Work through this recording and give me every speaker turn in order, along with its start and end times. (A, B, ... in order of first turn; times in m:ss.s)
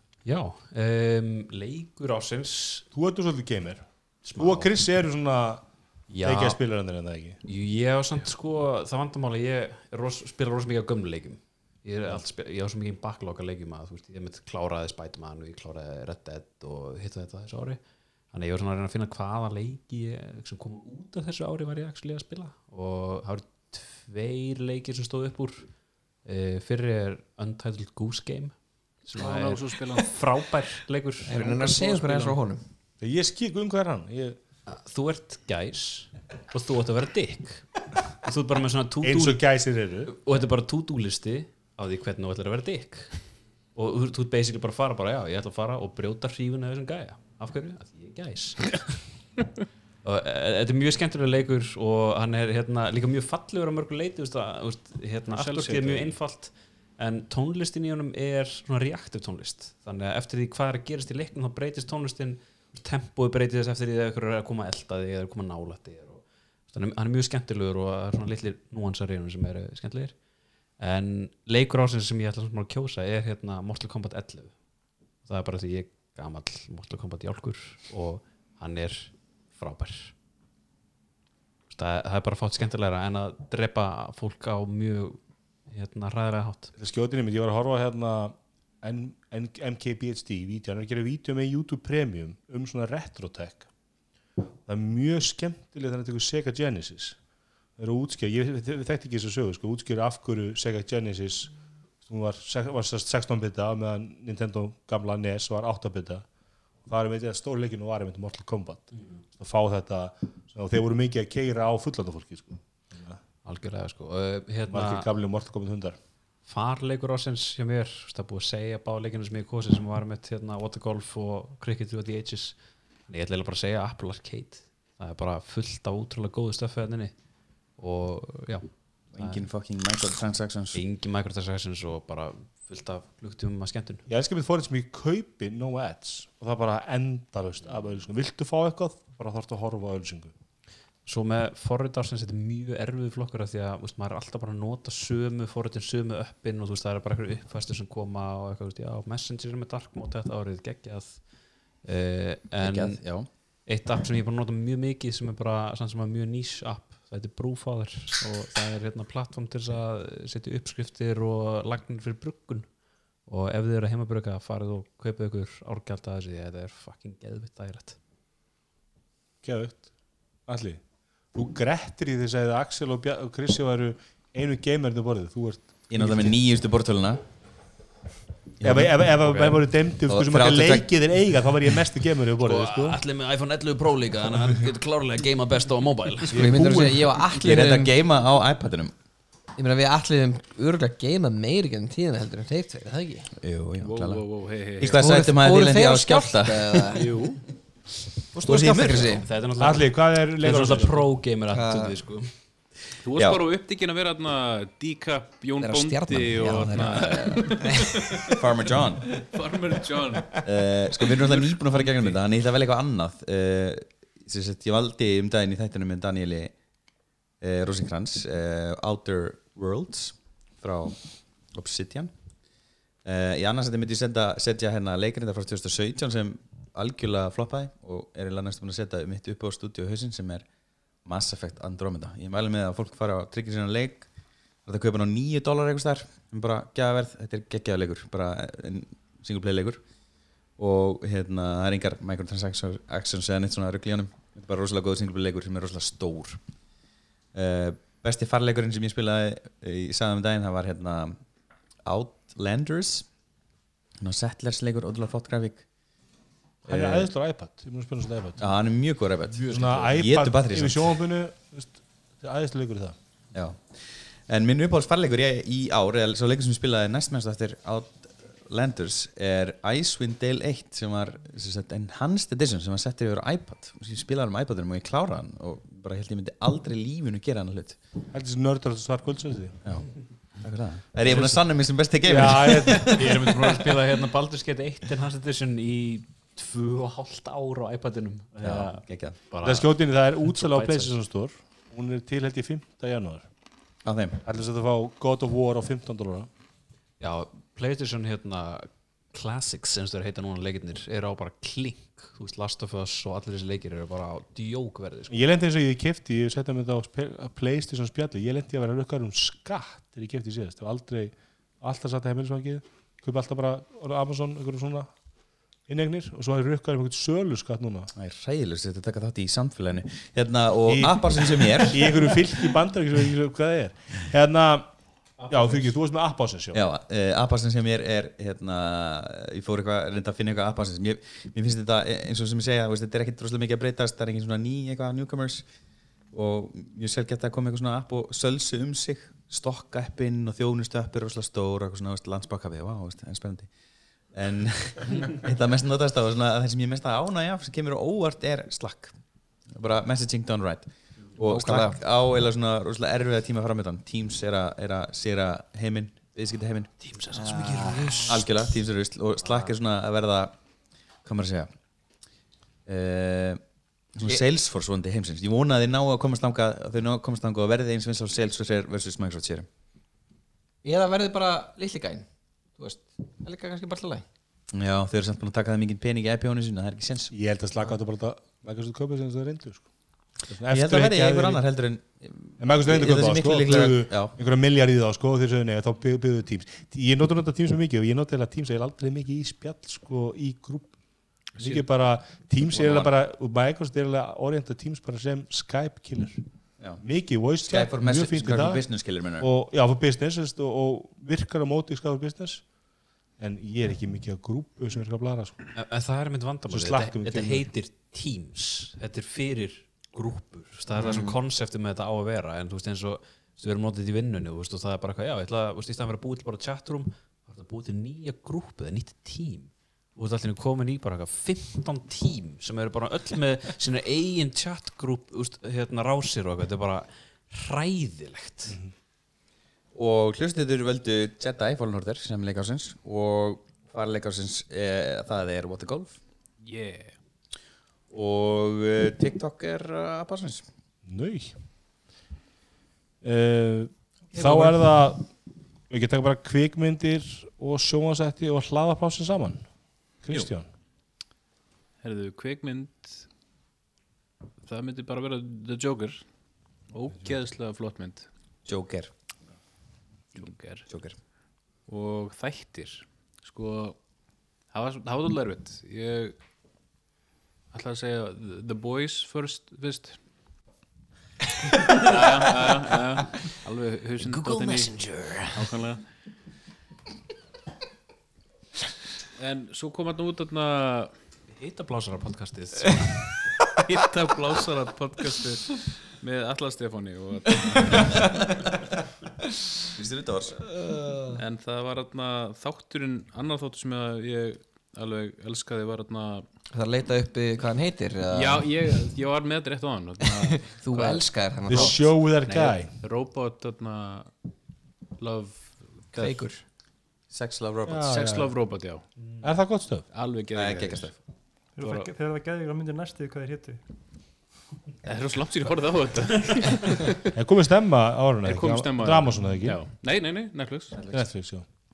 0:00.2-0:02.9 A
0:02.9-0:07.4 B
0:04.2-0:04.8 A
0:06.1-0:06.6 A
0:07.4-0:17.8 A
0:18.3-0:25.7 A
0:26.2-0:32.4 A
0:29.2-0:30.0 B
0:31.2-0:32.6 C
0:33.0-0:34.4 B
0:34.7-0:49.0 A
0:39.0-0:40.1 B
0:50.0-1:10.2 A
0:55.3-0:56.2 D
1:10.8-1:14.6 A
1:15.2-1:20.1 A
1:21.7-1:26.7 A
1:26.8-1:33.7 B
1:34.7-1:37.2 B
1:37.8-1:46.3 B
1:46.8-1:53.2 B
1:53.4-1:55.1 A
1:54.7-1:56.0 B
1:56.4-2:02.6 A
2:03.1-2:07.1 A
2:07.8-2:09.5 A
2:09.1-2:10.8 E
2:10.7-2:14.0 A
2:14.1-2:20.3 B
2:21.0-2:31.3 A
2:31.8-2:42.7 A
2:32.6-2:33.3 E
2:43.3-2:48.0 A
2:49.4-2:49.9 B
2:50.5-2:56.4 B
2:55.9-2:57.2 E
2:58.6-2:59.0 E
2:58.6-3:03.0 B
2:59.3-2:59.5 A
3:00.1-3:01.2 E
3:02.4-3:06.5 A
3:06.3-3:07.1 B
3:06.3-3:07.9 C
3:07.4-3:08.9 E
3:09.6-3:13.3 C
3:13.4-3:17.1 E
3:13.8-3:15.0 D
3:14.9-3:17.1 C
3:16.9-3:17.4 A
3:18.3-3:19.3 C
3:18.4-3:19.2 E
3:19.2-3:22.3 A
3:19.6-3:21.1 B
3:21.5-3:22.1 C
3:23.0-3:28.3 D
3:25.6-3:28.3 C
3:26.9-3:27.5 E
3:28.3-3:29.1 E
3:29.1-3:30.4 D
3:30.4-3:36.6 E
3:31.1-3:32.2 D
3:37.4-3:42.1 E
3:43.0-3:50.5 E
3:51.0-3:54.1 E
3:54.7-3:59.8 E
4:00.6-4:06.4 E
4:07.3-4:11.2 E
4:11.8-4:13.1 E
4:14.0-4:15.6 E
4:16.6-4:17.1 E
4:16.7-4:18.5 B
4:18.4-4:21.0 E
4:19.4-4:20.0 A
4:19.5-4:23.0 B
4:23.3-4:37.8 E
4:38.1-4:39.6 B
4:39.6-4:43.3 E
4:41.1-4:41.4 B
4:42.0-4:43.1 B
4:42.9-4:51.0 A
4:48.4-4:49.2 E
4:49.4-4:53.3 B
4:53.8-4:54.2 E
4:54.2-4:56.3 B
4:57.0-5:05.2 A
5:05.1-5:14.9 B
5:15.7-5:17.9 B
5:18.0-5:22.2 E
5:20.7-5:24.7 B
5:25.3-5:26.6 B
5:26.5-5:35.5 E
5:36.1-5:43.5 E
5:44.1-5:49.0 E
5:49.5-5:56.7 E
5:51.3-5:51.8 C
5:56.8-5:58.3 A
5:57.1-5:58.1 C
5:58.0-6:00.4 E
5:59.2-5:59.5 A
6:01.0-6:01.5 E
6:02.7-6:03.4 E
6:03.9-6:09.5 E
6:10.6-6:14.0 C
6:14.5-6:17.1 E
6:17.1-6:19.7 B
6:20.2-6:21.4 B
6:20.5-6:24.2 E
6:22.4-6:30.8 B
6:31.4-6:36.2 B
6:32.5-6:32.9 E
6:36.8-6:42.5 B
6:37.4-6:39.3 E
6:43.2-6:45.4 B
6:45.6-7:08.6 A
6:46.5-6:47.5 B
6:50.8-6:51.2 C
7:09.7-7:16.0 E
7:16.4-7:17.0 D
7:17.9-7:20.5 E
7:20.9-7:21.4 B
7:23.0-7:25.1 B
7:24.2-7:24.5 D
7:25.7-7:30.5 B
7:31.8-7:33.1 D
7:34.4-7:36.1 D
7:36.7-7:38.1 D
7:38.5-7:38.9 E
7:40.2-7:40.7 D
7:40.7-7:41.0 E
7:41.7-7:43.8 D
7:44.5-7:46.2 D
7:47.5-7:50.0 D
7:51.7-7:52.0 C
7:51.7-7:55.8 D
7:54.0-7:55.4 A
7:59.2-8:01.0 D
8:01.3-8:03.0 A
8:03.6-8:08.3 D
8:09.7-8:10.4 E
8:10.6-8:11.2 B
8:11.1-8:16.3 D
8:16.5-8:18.6 C
8:18.1-8:24.1 D
8:20.2-8:21.8 C
8:21.5-8:22.7 B
8:25.0-8:26.2 D
8:25.9-8:26.4 C
8:27.1-8:28.0 E
8:27.7-8:28.4 B
8:27.9-8:29.3 D
8:29.2-8:29.9 B
8:29.9-8:31.0 D
8:30.3-8:30.9 E
8:31.6-8:33.6 F
8:31.6-8:31.9 D
8:34.8-8:37.0 D
8:37.1-8:39.6 B
8:38.2-8:40.8 D
8:40.9-8:41.4 B